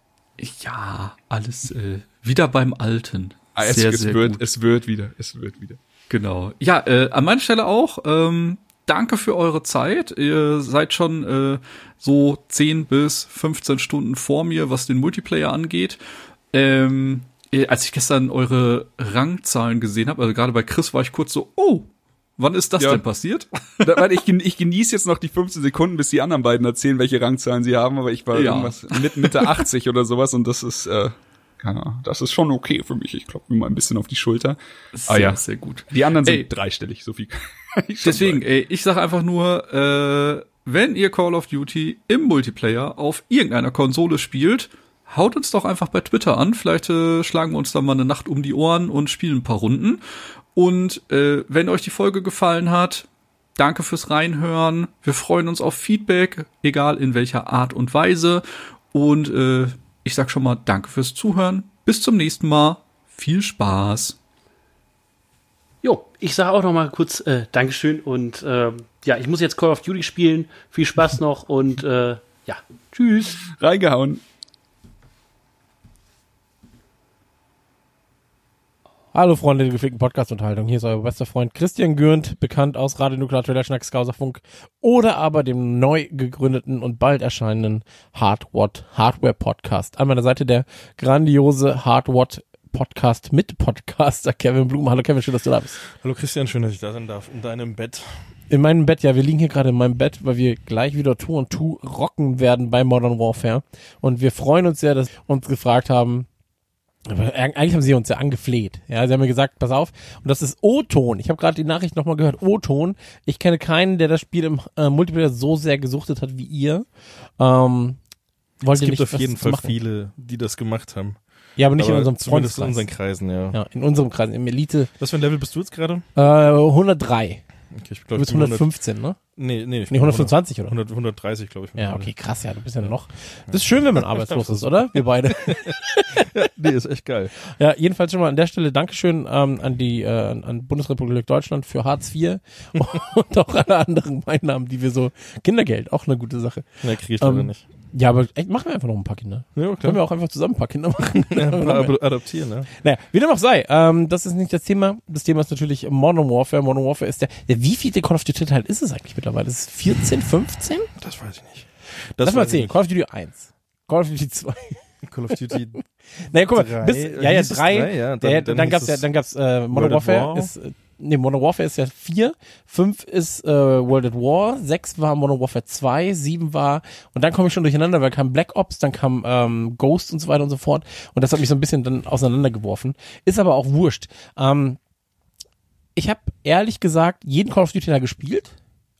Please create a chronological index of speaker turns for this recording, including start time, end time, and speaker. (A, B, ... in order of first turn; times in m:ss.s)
0:00.4-0:04.4 A
0:03.6-0:05.8 B
0:06.1-0:16.0 A
0:16.5-0:23.9 A
0:23.8-0:38.4 B
0:28.3-0:29.6 A
0:34.9-0:36.5 A
0:38.0-0:50.0 A
0:50.5-1:04.2 A
1:05.8-1:13.4 C
1:13.4-1:14.2 B
1:19.1-1:35.7 D
1:35.9-1:38.1 E
1:38.5-1:46.2 D
1:47.1-1:56.8 D
1:57.4-1:58.0 D
1:58.6-1:59.8 D
1:58.7-2:03.6 E
2:01.6-2:02.9 D
2:03.5-2:04.9 D
2:05.0-2:06.0 E
2:06.2-2:07.4 D
2:07.7-2:12.1 E
2:08.2-2:09.2 D
2:09.9-2:10.7 D
2:11.8-2:16.0 D
2:12.8-2:17.3 E
2:17.5-2:31.9 D
2:26.8-2:27.6 E
2:29.5-2:30.0 E
2:31.1-2:32.7 E
2:32.8-2:40.9 D
2:41.0-2:42.8 E
2:42.2-2:44.8 D
2:45.0-2:45.8 E
2:46.3-3:04.8 D
2:46.4-2:49.1 E
2:49.7-2:50.5 E
3:06.0-3:08.5 D